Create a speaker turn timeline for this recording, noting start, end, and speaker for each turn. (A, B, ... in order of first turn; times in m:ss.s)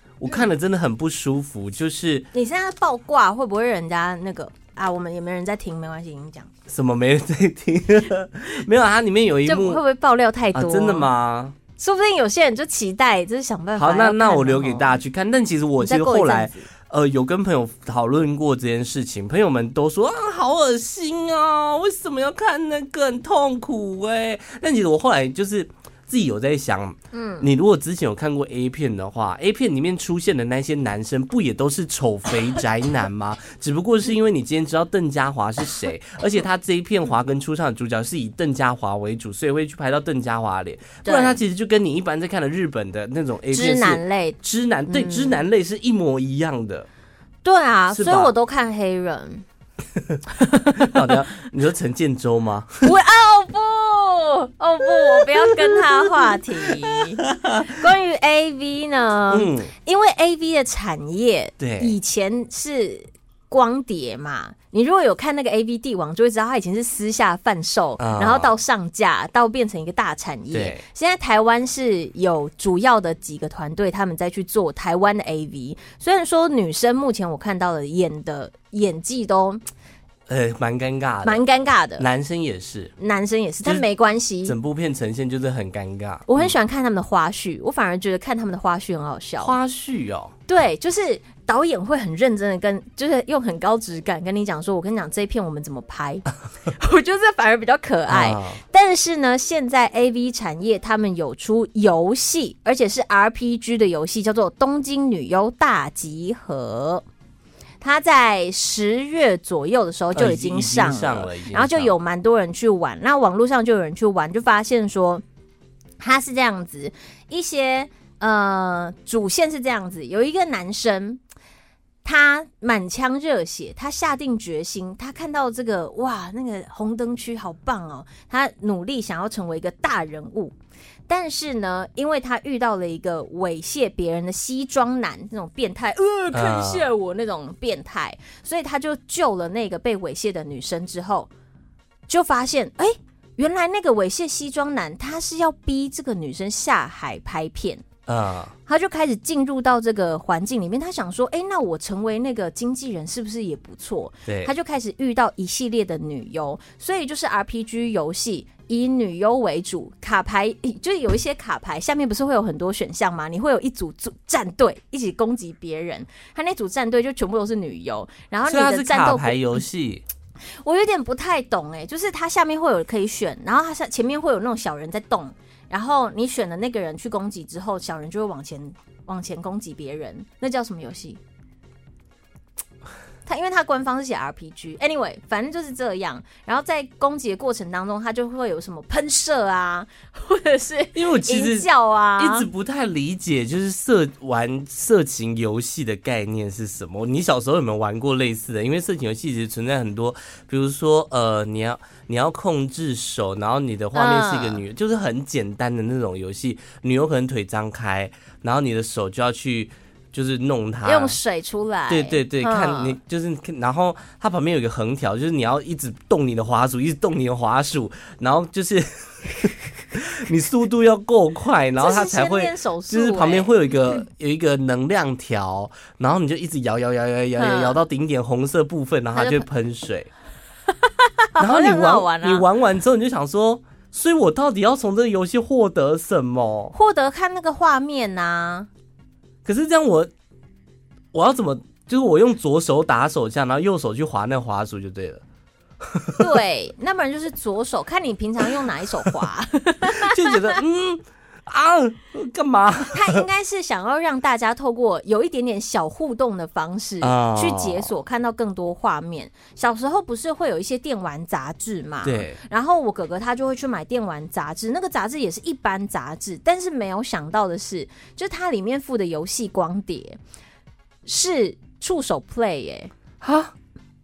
0:00.2-0:02.3 A
0:02.3-0:06.5 B
0:06.7-0:09.8 A
0:09.5-0:11.1 B
0:10.5-0:11.6 A
0:11.8-0:15.0 B
0:13.8-0:46.9 A
0:15.8-0:16.7 B
0:27.1-0:27.5 B
0:41.0-0:41.4 B
0:43.5-0:45.4 B
0:47.4-0:49.4 B
0:47.9-0:48.3 A
0:50.3-0:51.2 B
0:50.7-0:52.9 A
0:52.8-1:19.6 B
0:55.0-0:57.8 A
0:59.3-0:59.7 A
1:01.6-1:02.0 A
1:08.0-1:08.5 A
1:10.5-1:10.8 A
1:20.3-1:21.4 A
1:21.2-1:22.1 B
1:22.0-1:22.9 A
1:23.0-1:24.6 B
1:24.4-1:26.5 A
1:26.3-1:29.6 B
1:29.4-1:30.4 A
1:30.5-1:47.0 B
1:38.1-1:38.6 A
1:47.8-1:55.2 B
1:50.2-1:51.9 A
1:56.0-2:01.2 B
2:02.0-2:10.6 B
2:11.1-2:21.3 B
2:16.3-2:16.9 A
2:22.1-2:27.8 B
2:28.1-2:28.5 A
2:28.7-2:49.6 B
2:34.3-2:34.5 A
2:48.5-2:50.0 A
2:50.6-3:01.2 B
3:03.3-3:12.5 B
3:11.0-3:31.2 A
3:23.9-3:24.6 B
3:30.8-3:33.0 B
3:31.9-3:50.1 A
3:41.8-3:44.0 B
3:47.4-3:47.8 B
3:49.2-3:49.5 B
3:50.7-3:52.5 B
3:51.4-3:56.7 A
3:56.7-3:58.7 B
3:59.4-4:00.1 A
4:01.1-4:05.2 A
4:05.8-4:06.3 A
4:06.2-4:10.6 B
4:09.9-4:13.2 A
4:12.9-4:30.2 B
4:17.0-4:17.9 A
4:22.0-4:22.4 A
4:31.0-4:32.9 B
4:33.2-4:33.5 A